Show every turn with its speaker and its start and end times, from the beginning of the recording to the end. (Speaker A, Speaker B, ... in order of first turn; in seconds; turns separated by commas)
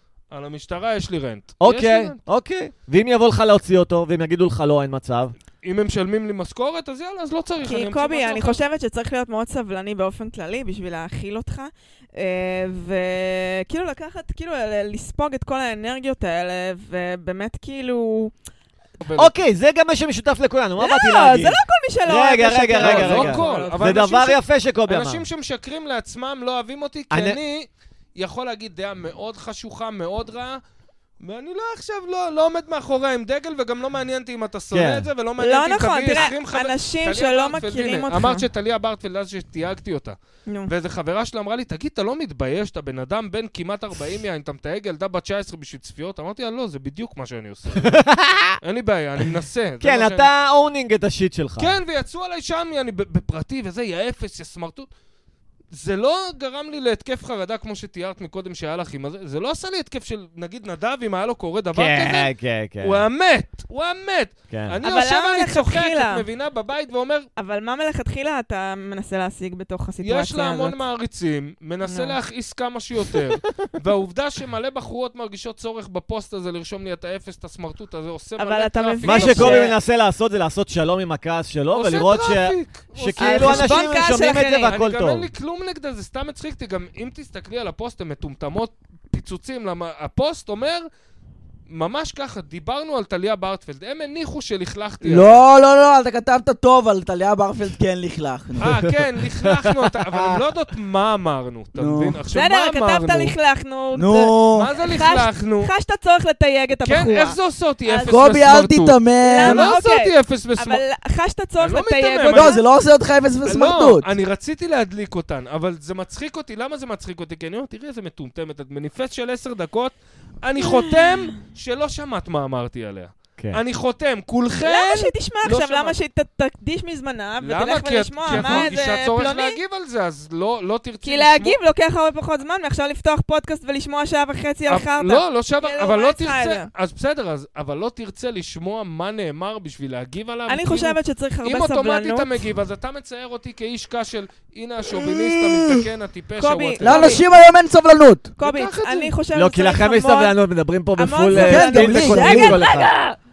Speaker A: 0.3-2.2, Speaker B: 1.6-5.3, Speaker A: 5.6-8.6, Speaker C: 7.6-18.3, Speaker A: 19.0-19.3, Speaker B: 19.1-25.2, Speaker C: 20.8-24.0, Speaker A: 22.8-30.6, Speaker B: 27.1-27.4, Speaker A: 31.2-40.2, Speaker B: 34.7-35.1, Speaker C: 35.4-38.5, Speaker A: 40.7-48.0, Speaker B: 47.8-48.6, Speaker A: 48.6-50.3, Speaker B: 49.8-51.7, Speaker A: 51.6-54.9, Speaker A: 55.7-67.3, Speaker B: 61.7-63.0, Speaker B: 64.5-64.8, Speaker C: 64.8-66.2, Speaker C: 67.4-70.8, Speaker A: 70.0-79.7, Speaker C: 71.9-72.2, Speaker C: 78.4-79.7, Speaker B: 79.0-85.3, Speaker A: 81.7-84.0, Speaker C: 83.2-84.7, Speaker A: 84.6-90.9, Speaker A: 91.7-95.4, Speaker D: 95.0-98.7, Speaker A: 98.6-103.3, Speaker B: 98.6-100.4, Speaker D: 101.8-102.2, Speaker C: 102.3-108.2, Speaker D: 104.0-104.7, Speaker A: 104.5-105.7, Speaker A: 106.8-110.8, Speaker D: 108.0-109.7, Speaker C: 109.2-112.6, Speaker A: 111.6-112.6, Speaker D: 112.3-114.1, Speaker A: 113.5-126.0, Speaker C: 120.6-121.3, Speaker C: 124.6-129.6, Speaker A: 127.4-131.6, Speaker B: 128.3-128.7, Speaker C: 131.0-136.7, Speaker A: 134.7-147.2, Speaker C: 140.5-142.4, Speaker D: 144.9-145.9, Speaker C: 146.4-147.2, Speaker D: 146.8-148.3, Speaker C: 148.4-150.4, Speaker A: 148.4-149.1, Speaker B: 149.3-152.9, Speaker C: 151.0-153.2, Speaker D: 151.3-152.6